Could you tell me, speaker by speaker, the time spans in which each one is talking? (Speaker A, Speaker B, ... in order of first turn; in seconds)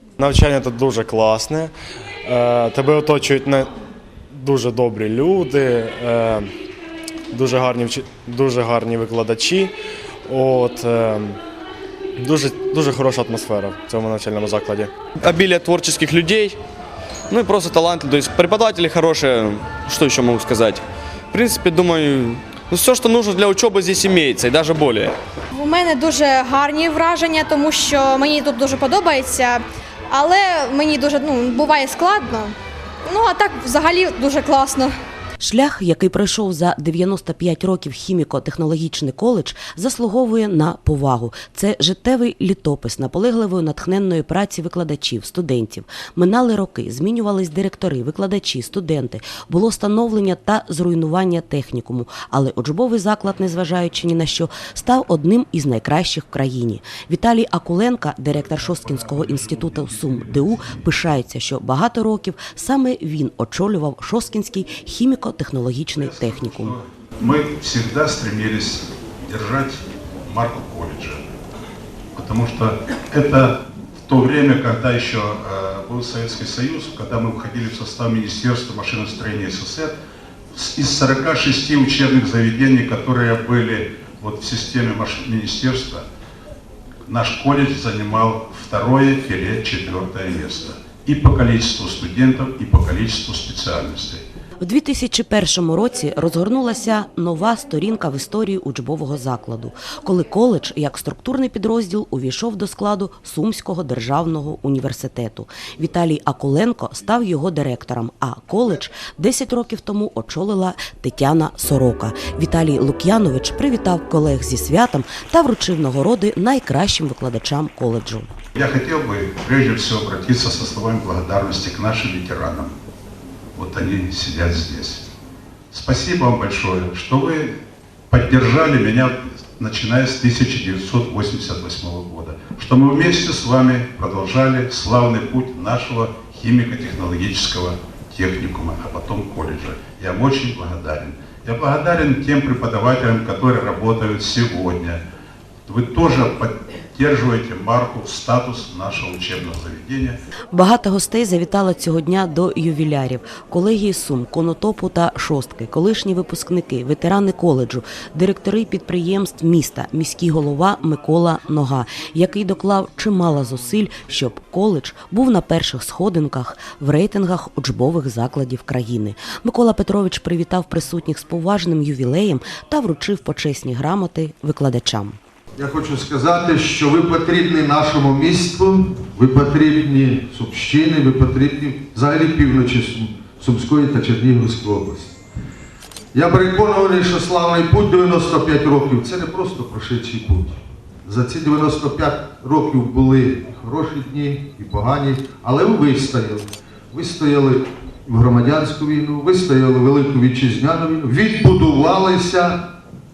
Speaker A: 0.2-1.7, 2.2-3.7, 4.3-6.5, 7.3-9.7, 10.3-11.4, 12.2-14.9
Speaker B: 15.2-16.6, 17.3-25.2
Speaker C: 25.5-32.5, 33.0-34.9
Speaker D: 35.4-66.8, 94.6-118.3, 150.5-175.2
Speaker E: 58.5-60.6, 66.0-71.2, 72.1-79.9, 80.5-86.0, 87.1-94.2, 118.5-122.7, 123.5-125.1, 125.7-127.6, 128.1-145.0, 145.7-150.2
Speaker F: 175.6-185.2, 186.1-202.7